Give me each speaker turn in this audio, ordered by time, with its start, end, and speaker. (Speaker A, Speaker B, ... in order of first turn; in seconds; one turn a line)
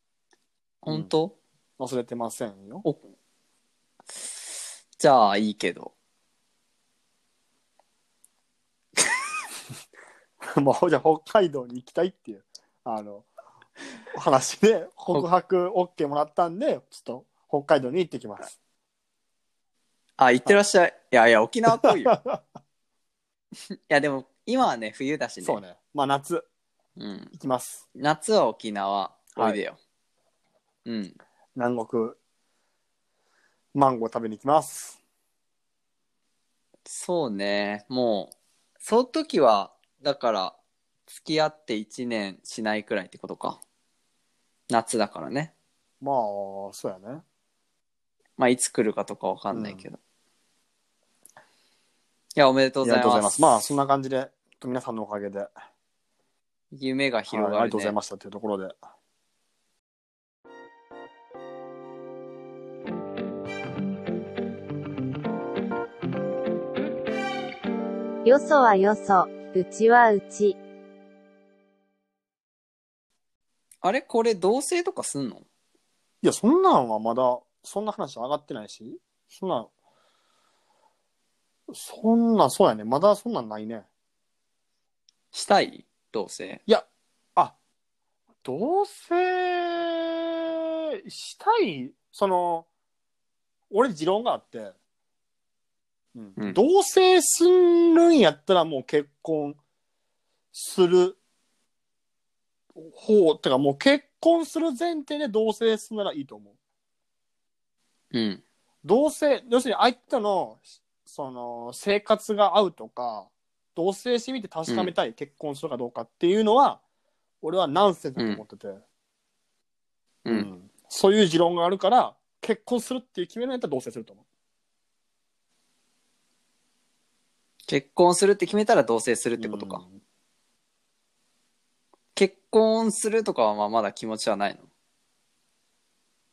Speaker A: 0.8-1.4
Speaker B: 1.8-2.8
Speaker A: 5.0-5.9
Speaker B: 10.4-13.3
Speaker B: 14.1-18.6
Speaker A: 20.2-22.2
Speaker B: 21.7-22.4
Speaker A: 23.9-25.6
Speaker B: 25.4-26.4
Speaker A: 27.0-27.3
Speaker B: 27.4-27.8
Speaker A: 27.9-29.8
Speaker B: 29.4-29.6
Speaker A: 30.9-31.2
Speaker B: 31.5-32.2
Speaker B: 33.7-35.0
Speaker A: 36.9-40.5
Speaker A: 41.1-43.6
Speaker A: 44.7-45.5
Speaker B: 46.0-47.2
Speaker A: 48.4-50.0
Speaker B: 49.5-49.8
Speaker A: 52.4-53.7
Speaker B: 52.8-55.5
Speaker A: 56.7-57.9
Speaker B: 57.3-58.8
Speaker C: 68.2-70.6
Speaker A: 73.8-75.4
Speaker B: 76.2-79.7
Speaker B: 81.7-83.8
Speaker A: 85.3-86.6
Speaker B: 86.7-87.5
Speaker B: 88.4-90.5
Speaker B: 91.0-92.7
Speaker B: 93.7-94.7
Speaker B: 96.1-99.6
Speaker B: 100.5-101.2
Speaker B: 102.8-106.5
Speaker A: 108.1-108.4
Speaker B: 108.8-116.8
Speaker A: 114.7-114.9
Speaker B: 117.4-118.8
Speaker A: 118.2-118.4
Speaker B: 120.3-124.2
Speaker A: 127.7-129.8
Speaker B: 129.4-130.0
Speaker A: 132.2-134.6